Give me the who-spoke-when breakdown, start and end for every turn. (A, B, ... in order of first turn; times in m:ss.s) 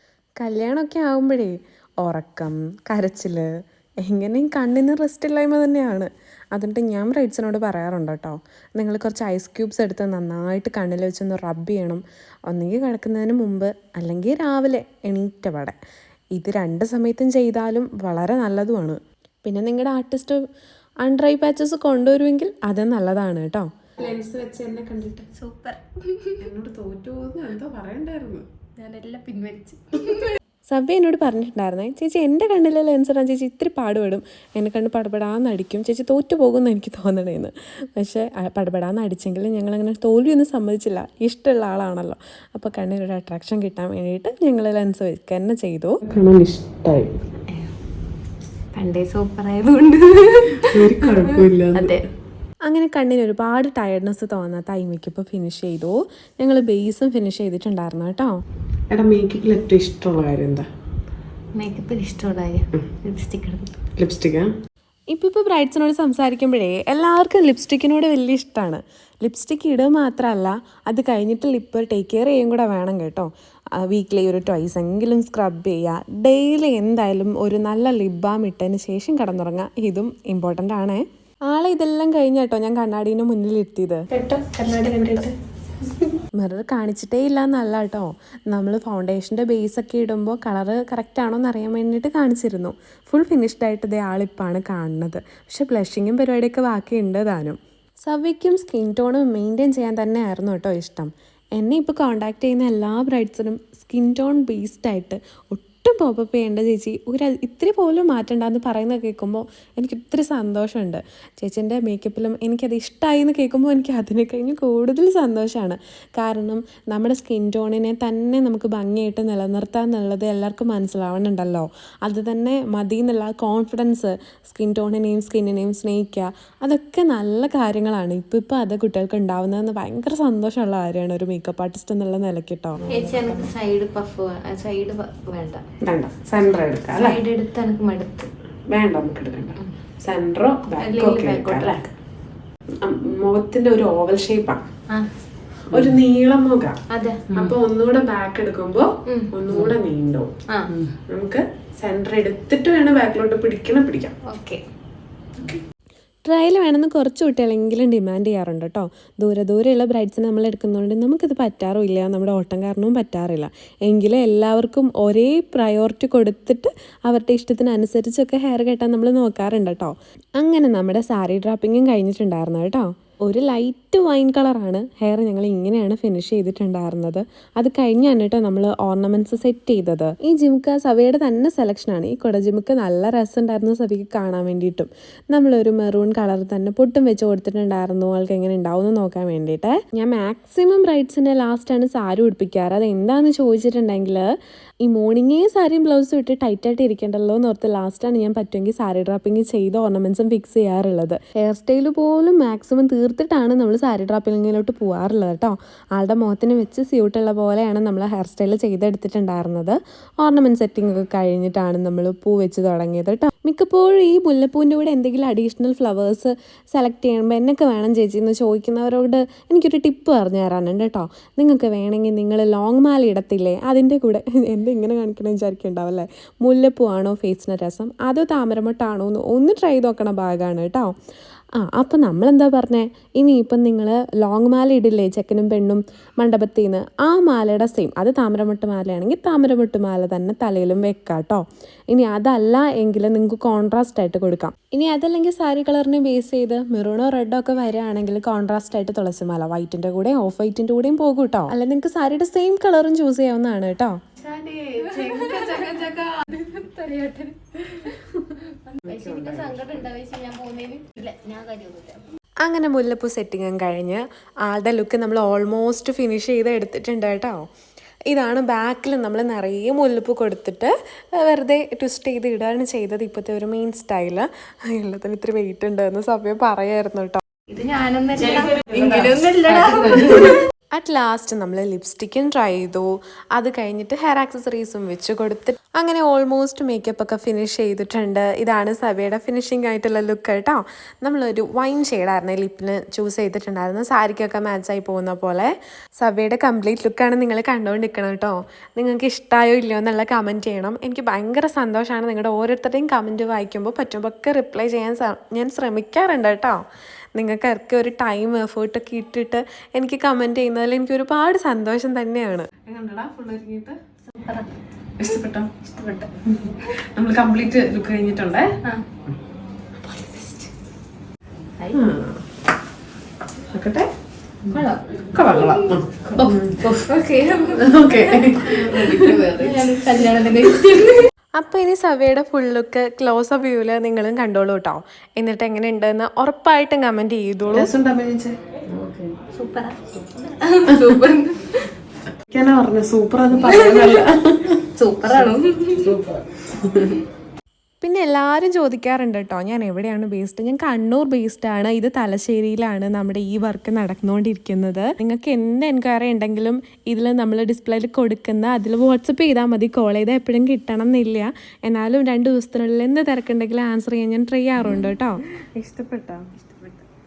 0:00.4-0:03.5 A
0:04.0-0:15.8 A
0:16.4-0:20.4 A
0:21.0-0:23.7 A
0:24.0-0:25.3 B
0:25.3-0:26.4 C
0:26.4-0:28.4 B
0:28.8-0:30.4 C
0:30.7-0:46.0 A
0:46.0-0:47.2 B
0:48.7-0:52.0 C
0:50.7-0:52.0 B
0:52.7-0:58.3 A
0:58.9-1:00.7 B
1:01.6-1:03.8 C
1:04.0-1:04.5 B
1:05.1-1:25.0 A
1:26.4-2:12.8 A
2:12.8-2:13.4 B
2:12.9-2:15.6 C
2:15.8-2:17.2 B
2:16.9-2:18.3 C
2:18.7-2:21.9 B
2:20.8-2:21.8 C
2:22.8-2:24.6 B
2:25.7-2:26.8 B
2:26.9-2:27.4 C
2:27.3-2:30.3 B
2:29.1-2:29.3 C
2:30.5-2:30.7 C
2:31.0-2:34.2 B
2:34.3-2:34.6 C
2:36.3-3:14.3 A
3:14.8-3:50.9 A
3:51.6-4:14.0 A
4:14.2-4:22.0 C
4:18.9-4:19.7 B
4:22.4-4:27.4 A
4:28.1-4:37.2 A
4:37.5-4:40.4 C
4:40.8-5:06.6 A
5:07.2-5:12.5 A
5:12.6-5:13.8 B
5:14.2-5:14.5 C
5:15.0-5:18.5 B
5:19.8-5:20.5 C
5:21.6-5:21.9 C
5:21.7-5:22.2 B
5:23.5-5:23.9 B
5:24.5-5:31.1 C
5:25.1-5:26.8 B
5:27.5-5:29.6 B
5:31.4-5:37.7 A
5:37.5-5:38.4 B
5:38.7-5:41.7 C
5:40.7-5:41.1 B
5:42.2-5:44.6 B
5:43.3-5:44.1 C
5:44.8-5:45.9 C
5:45.2-5:47.0 B
5:47.8-6:05.2 A
6:05.6-6:06.8 B